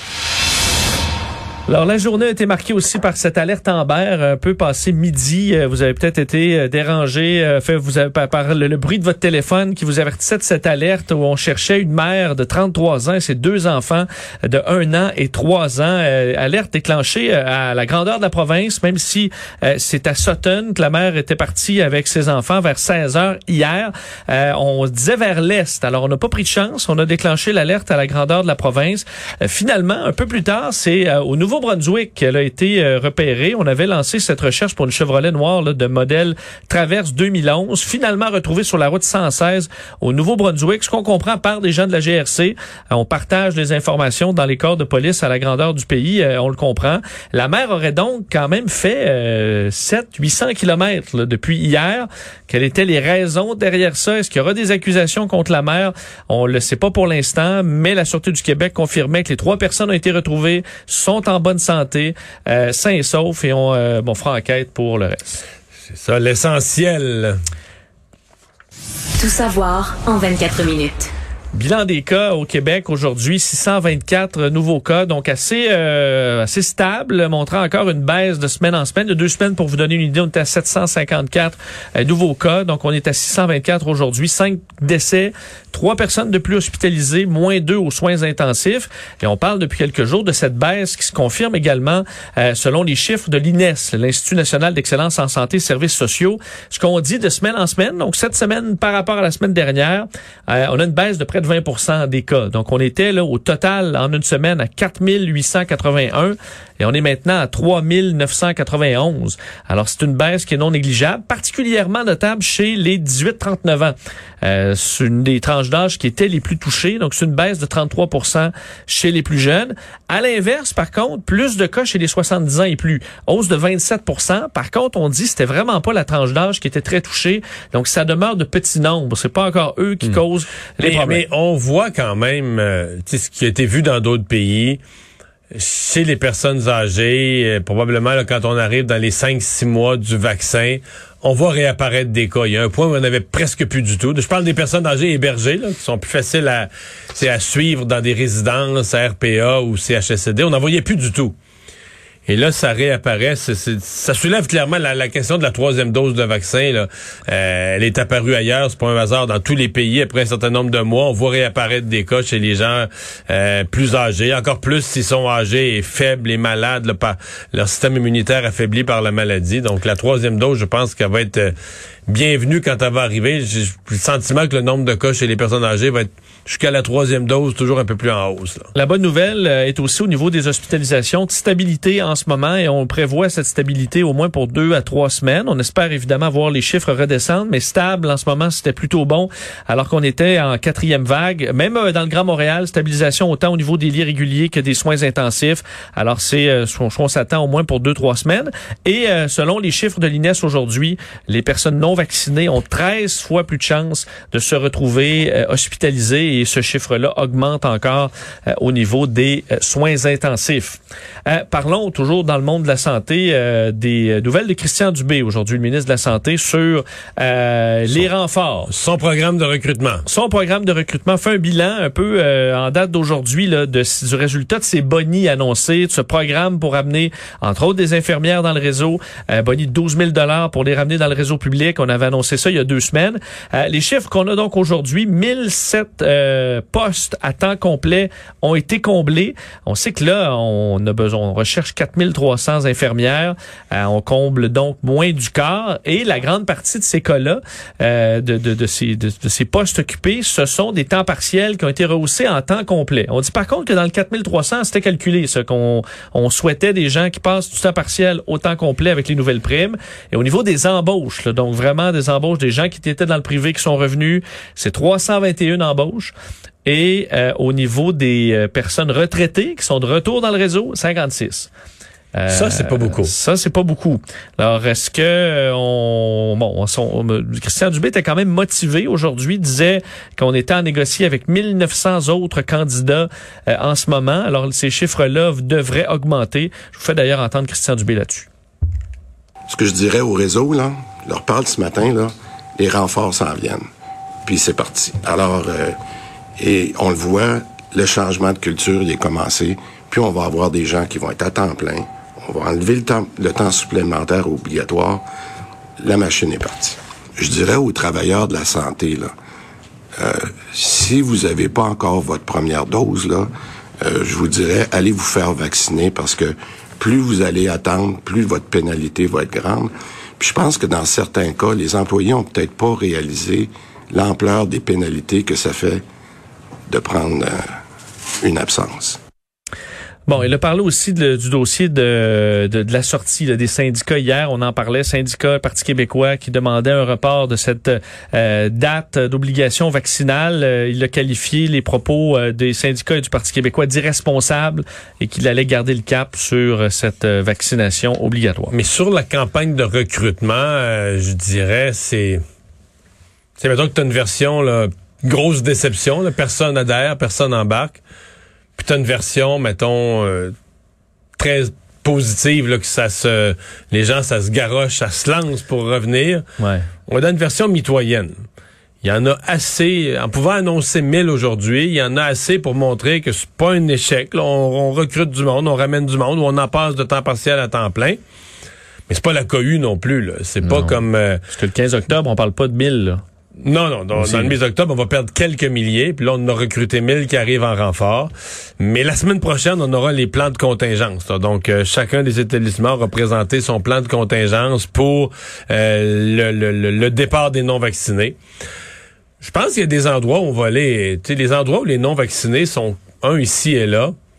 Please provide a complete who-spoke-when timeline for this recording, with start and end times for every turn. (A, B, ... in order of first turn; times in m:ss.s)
0:01.7-1:05.4 A
1:05.9-1:07.4 B
1:09.2-1:11.1 C
1:11.5-2:11.2 A
2:10.8-2:14.8 B
2:15.5-2:31.4 B
2:32.3-2:51.5 B
2:52.1-2:58.7 B
2:58.7-3:38.7 A
3:38.7-3:40.0 B
3:40.0-4:26.1 A
4:26.6-4:31.5 A
4:32.1-4:48.3 A
4:32.3-4:33.1 B
4:49.5-4:53.6 D
4:54.2-4:55.8 D
4:56.4-5:05.0 D
5:05.8-5:09.1 D
5:10.0-5:25.8 D
5:26.7-5:27.6 D
5:28.2-5:29.0 D
5:30.1-5:48.5 A
5:48.5-5:52.2 B
5:53.4-5:57.8 B
5:58.6-6:00.3 B
6:01.2-6:06.2 B
6:06.4-6:06.7 A
6:06.9-6:08.2 B
6:08.8-6:18.0 B
6:18.9-6:21.2 B
6:20.4-6:20.8 A
6:21.3-6:23.0 A
6:23.4-6:38.2 B
6:23.9-6:24.3 A
6:39.2-6:43.9 B